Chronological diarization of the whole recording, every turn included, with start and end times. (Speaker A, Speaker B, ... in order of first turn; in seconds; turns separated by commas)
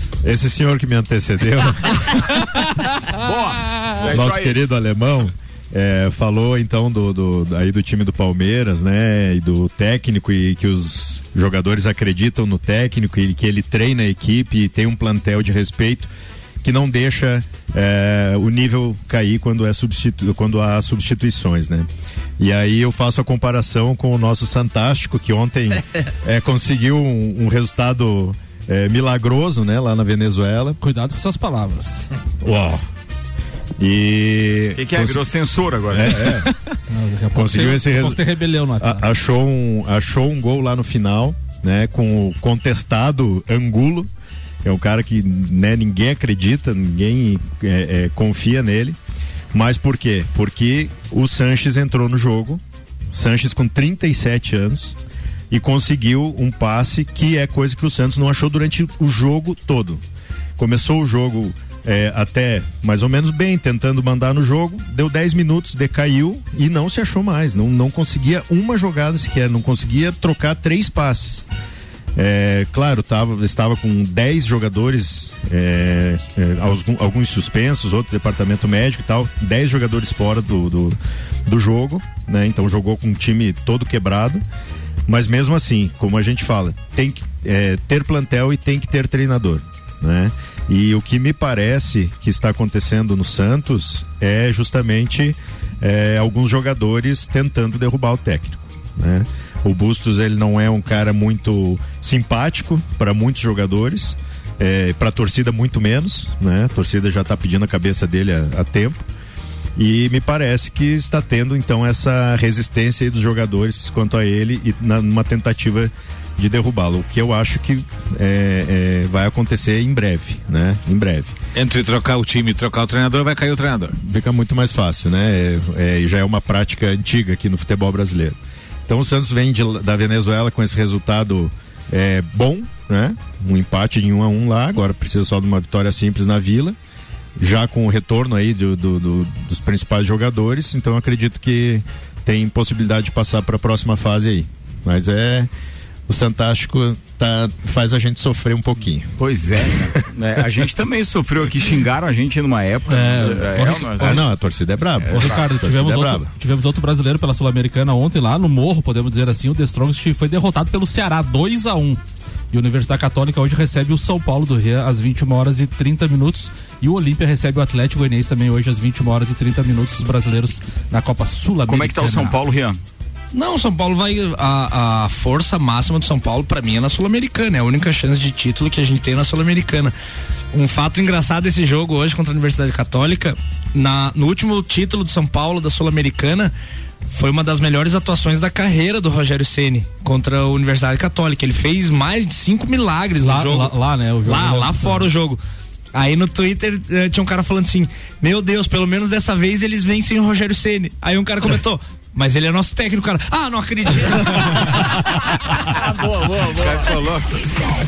Speaker A: 0.2-2.3, Speaker B: 3.1-4.6, Speaker A: 4.0-16.1, Speaker A: 16.6-21.9, Speaker A: 22.4-30.8, Speaker C: 30.8-32.1, Speaker A: 32.4-32.8, Speaker A: 33.8-35.2, Speaker B: 34.8-36.4, Speaker A: 35.9-36.5, Speaker C: 36.9-39.0, Speaker A: 37.3-38.2, Speaker A: 38.8-44.1, Speaker A: 44.6-49.0, Speaker A: 49.5-52.6, Speaker A: 53.1-55.0, Speaker A: 55.5-60.0, Speaker A: 60.6-71.5, Speaker A: 72.2-84.4, Speaker A: 85.1-109.0, Speaker A: 109.8-121.3, Speaker D: 121.5-124.0, Speaker A: 124.0-136.8, Speaker A: 137.4-145.5, Speaker A: 146.1-149.1, Speaker B: 149.2-154.2, Speaker C: 152.9-154.2, Speaker A: 154.0-156.3, Speaker B: 155.0-155.4, Speaker C: 155.1-162.0, Speaker C: 162.5-172.4, Speaker B: 171.7-172.8, Speaker E: 173.3-179.9, Speaker E: 180.5-186.5, Speaker E: 187.1-195.4, Speaker C: 193.2-195.1, Speaker E: 195.9-204.7, Speaker B: 205.7-207.2